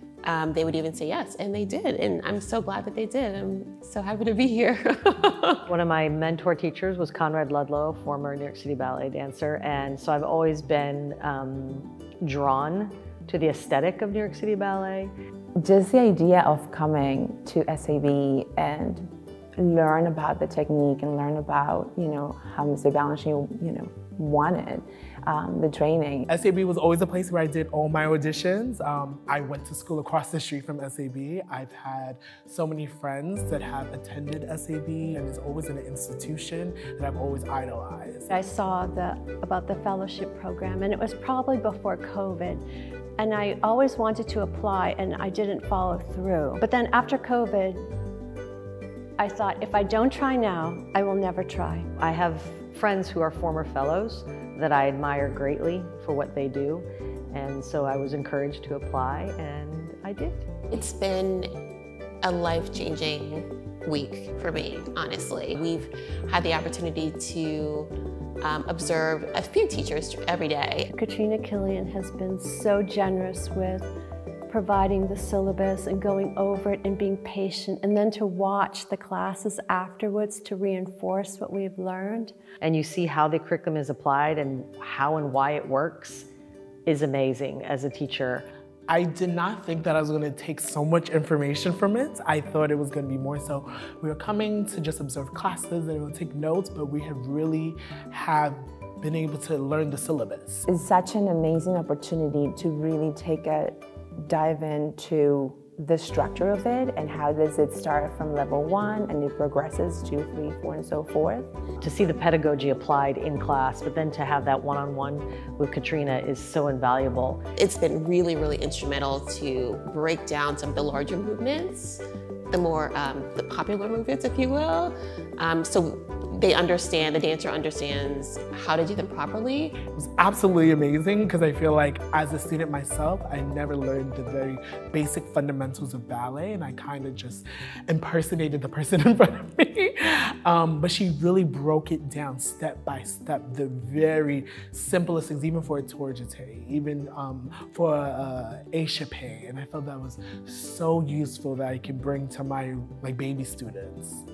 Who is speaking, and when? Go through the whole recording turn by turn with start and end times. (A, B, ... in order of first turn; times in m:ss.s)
0:00.2-0:05.6 A
0:05.7-0:15.1 B
0:15.6-0:26.3 C
0:26.3-0:38.3 D
0:38.3-0:42.6 E
0:43.2-0:47.9 E
0:49.2-0:51.9 E
0:52.0-1:00.5 B
1:00.7-1:01.5 A
1:02.2-1:07.9 A
1:08.4-1:10.9 A
1:10.9-1:13.9 E
1:14.5-1:22.4 E
1:22.6-1:26.3 B
1:26.9-1:28.5 B
1:28.9-1:40.6 D
1:40.7-1:51.5 C
1:51.8-1:57.4 B
1:57.6-2:09.8 A
2:10.0-2:34.2 D